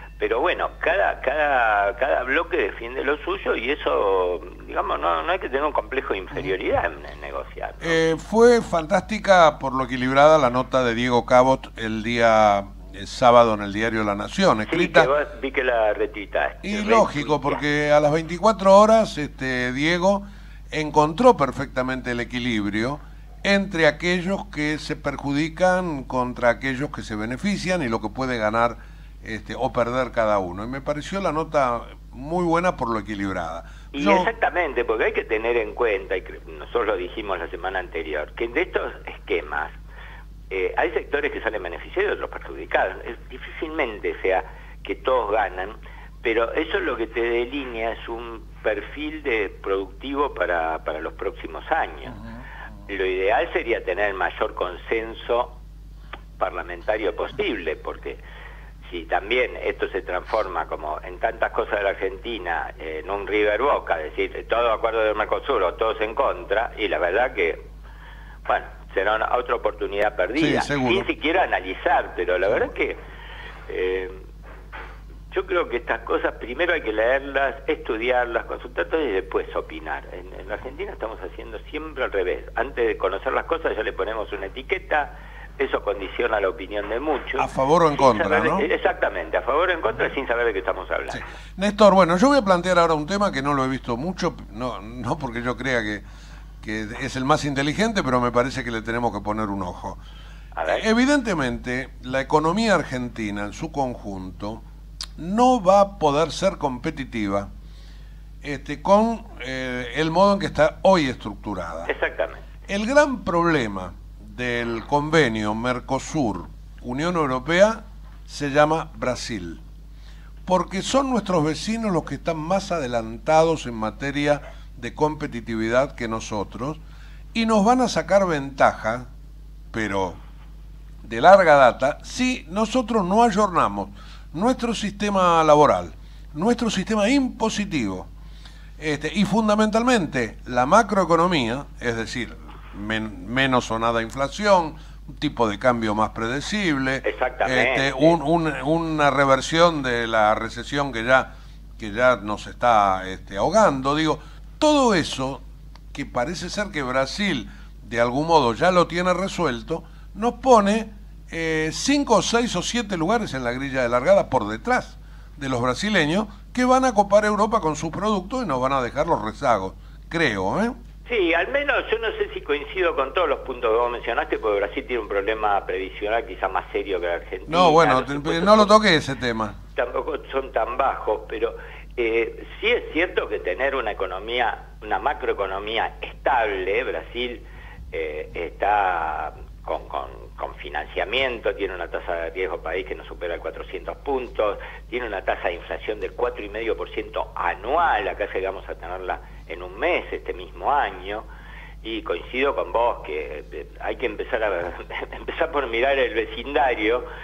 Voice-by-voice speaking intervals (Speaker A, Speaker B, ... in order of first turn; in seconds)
Speaker A: 0.2-8.0, 14.7-17.6, 33.9-39.8, 40.5-52.2, 52.9-55.6, 56.4-58.2, 58.9-67.6, 68.5-73.0, 73.7-74.2, 75.3-91.3, 100.5-100.8, 111.9-112.5, 147.0-148.2, 171.1-178.7, 179.8-201.3, 201.8-207.1
Speaker B: 7.8-15.1, 16.6-34.3, 70.4-71.1, 87.4-88.7, 91.1-96.0, 96.6-100.0, 100.7-104.6, 105.2-107.5, 108.4-111.9, 112.7-119.6, 120.5-126.8, 127.3-129.1, 129.7-130.2, 131.0-138.1, 138.8-170.8, 177.5-179.6